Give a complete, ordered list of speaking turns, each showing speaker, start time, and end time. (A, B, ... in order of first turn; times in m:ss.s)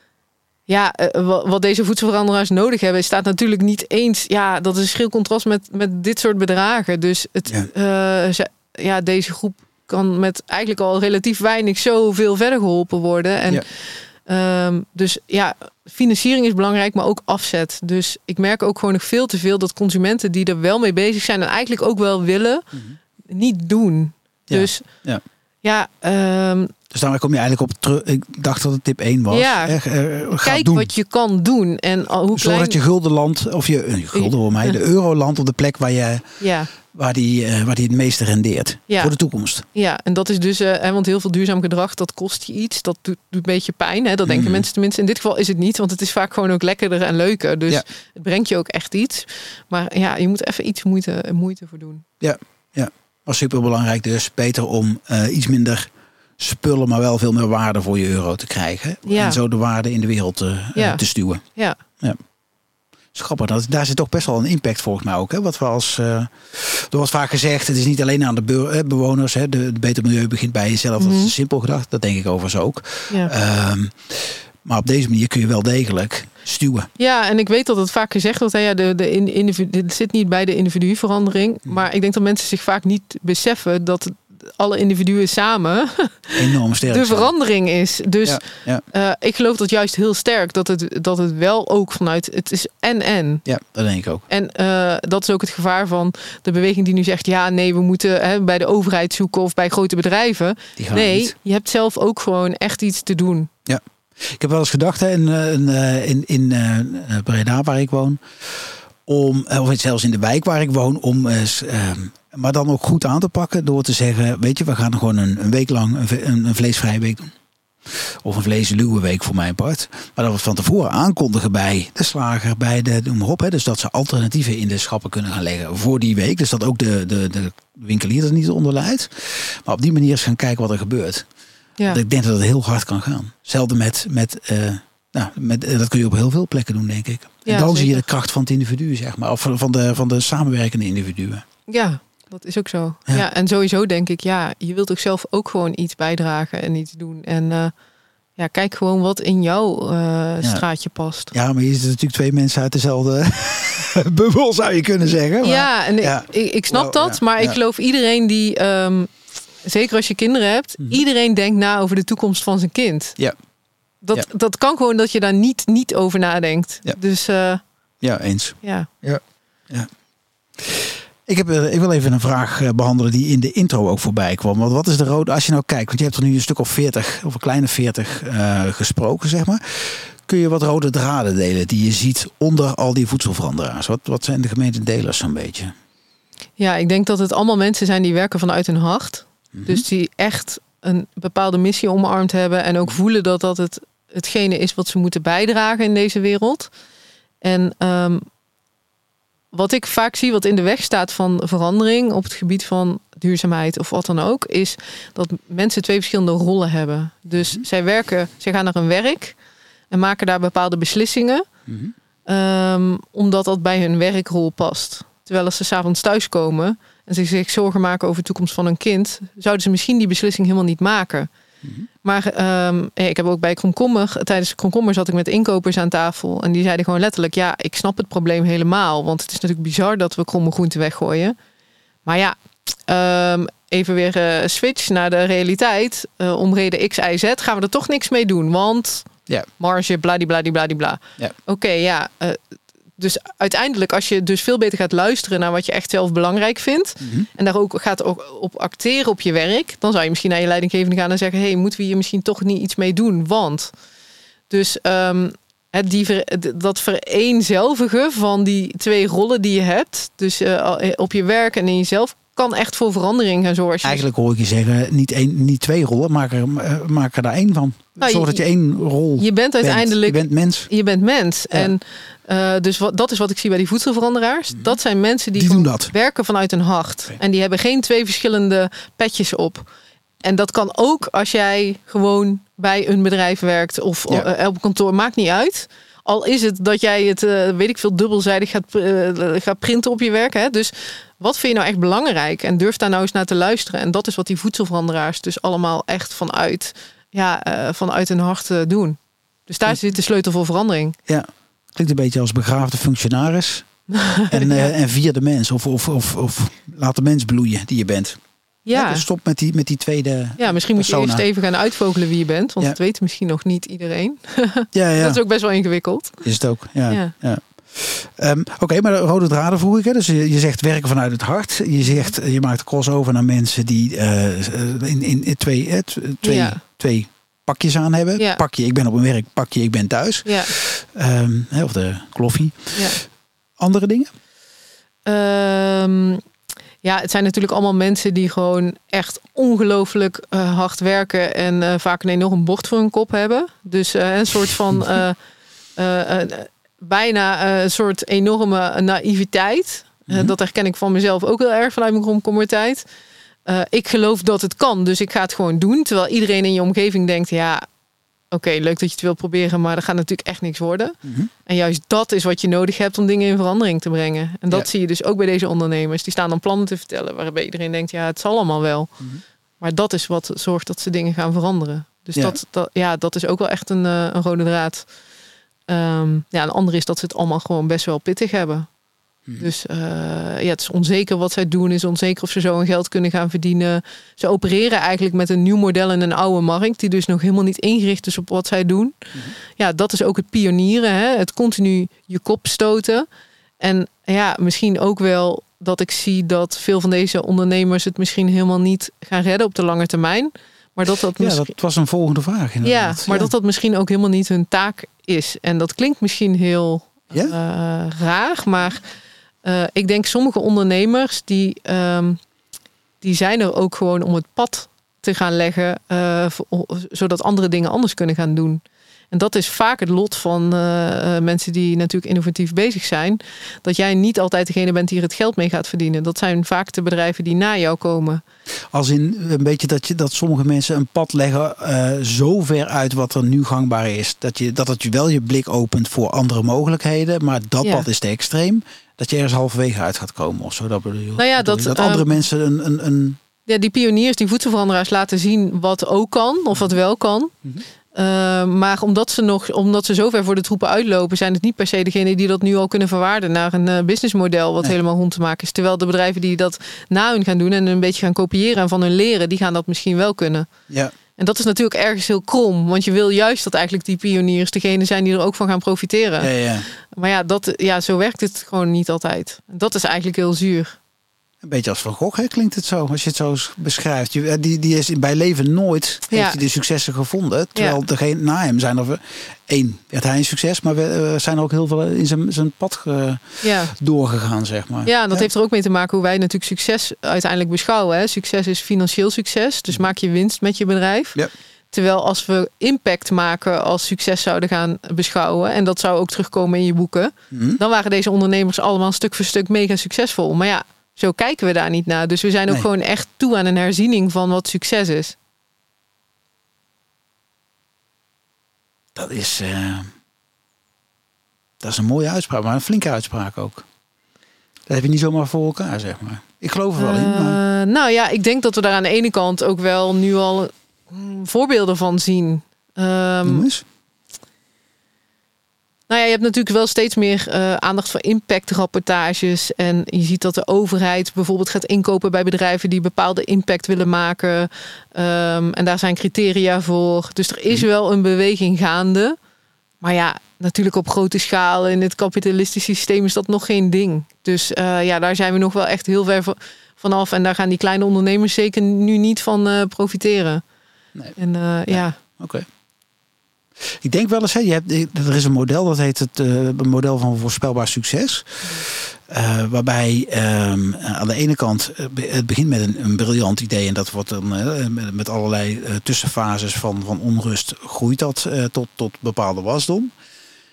0:00.7-0:22.7 A
0:22.7-0:23.0 B
0:23.2-0:25.0 A
0:24.5-0:25.2 B
0:25.6-0:26.7 A
0:26.9-0:30.9 B
0:29.3-0:29.8 A
0:30.4-0:32.8 A
0:32.4-0:39.6 B
0:34.1-0:34.8 A
0:36.4-0:36.7 A
0:38.9-0:52.0 A
0:44.3-0:44.7 B
0:52.2-1:01.4 B
0:59.1-0:59.4 A
1:00.8-1:01.8 A
1:03.1-1:16.9 B
1:11.0-1:11.3 A
1:17.0-1:33.5 A
1:26.3-1:27.3 B
1:28.2-1:28.8 B
1:33.5-1:34.2 B
1:34.3-1:43.5 A
1:40.8-1:41.3 B
1:43.7-1:57.3 B
1:58.2-2:11.3 B
2:11.9-2:21.4 B
2:17.4-2:18.0 A
2:21.7-2:27.7 A
2:28.4-2:31.3 A
2:31.3-2:37.6 B
2:35.4-2:39.1 A
2:39.6-2:43.2 A
2:44.0-2:47.6 A
2:48.0-2:49.9 B
2:48.6-2:48.9 A
2:50.6-3:05.7 B
3:06.6-3:16.7 A
3:09.5-3:09.8 B
3:17.4-3:18.3 A
3:19.5-3:29.4 A
3:27.4-3:27.6 B
3:29.9-3:31.5 A
3:31.7-3:31.9 B
3:32.3-3:41.3 A
3:41.6-3:41.9 B
3:42.0-3:51.4 A
3:52.0-4:02.4 A
4:03.0-4:13.7 A
4:07.0-4:07.3 B
4:14.5-4:24.0 A
4:23.8-4:30.7 B
4:28.0-4:28.4 A
4:29.2-4:39.7 A
4:35.4-4:35.9 B
4:40.2-5:01.0 A
5:01.1-5:08.2 B
5:03.9-5:04.7 A
5:08.6-5:09.0 A
5:08.7-5:11.2 B
5:10.4-5:16.2 A
5:14.7-5:15.2 B
5:16.2-5:33.0 B
5:16.9-5:17.1 A
5:26.2-5:26.6 A
5:28.2-5:28.4 A
5:30.2-5:30.5 A
5:32.8-5:33.0 A
5:33.6-5:34.1 B
5:35.0-5:36.2 A
5:36.8-5:45.2 A
5:45.8-5:52.9 A
5:50.1-5:50.3 B
5:53.4-5:57.7 A
5:58.3-6:09.0 A
6:01.0-6:01.3 B
6:09.6-6:14.9 A
6:15.7-6:18.7 A
6:19.4-6:33.1 A
6:33.6-6:41.5 A
6:41.2-6:43.3 B
6:42.6-6:48.9 A
6:49.4-6:52.2 A
6:53.0-7:08.2 A
7:08.7-7:23.2 B
7:17.6-7:17.9 A
7:21.2-7:22.2 A
7:23.5-7:27.3 A
7:27.9-7:40.5 A
7:41.2-7:50.8 A
7:46.2-7:46.7 B
7:51.4-8:05.3 B
7:56.1-7:56.4 A
7:57.6-7:57.8 A
8:03.4-8:03.7 A
8:04.8-8:11.2 A
8:11.7-8:25.2 A
8:17.3-8:17.6 B
8:29.0-8:29.9 B
8:31.6-8:33.7 B
8:34.7-8:37.4 B
8:36.8-8:43.5 A
8:43.2-8:43.6 B
8:45.9-8:59.2 A
8:59.8-9:10.4 A
9:11.2-9:12.0 A
9:11.7-9:12.5 B
9:13.8-9:29.9 B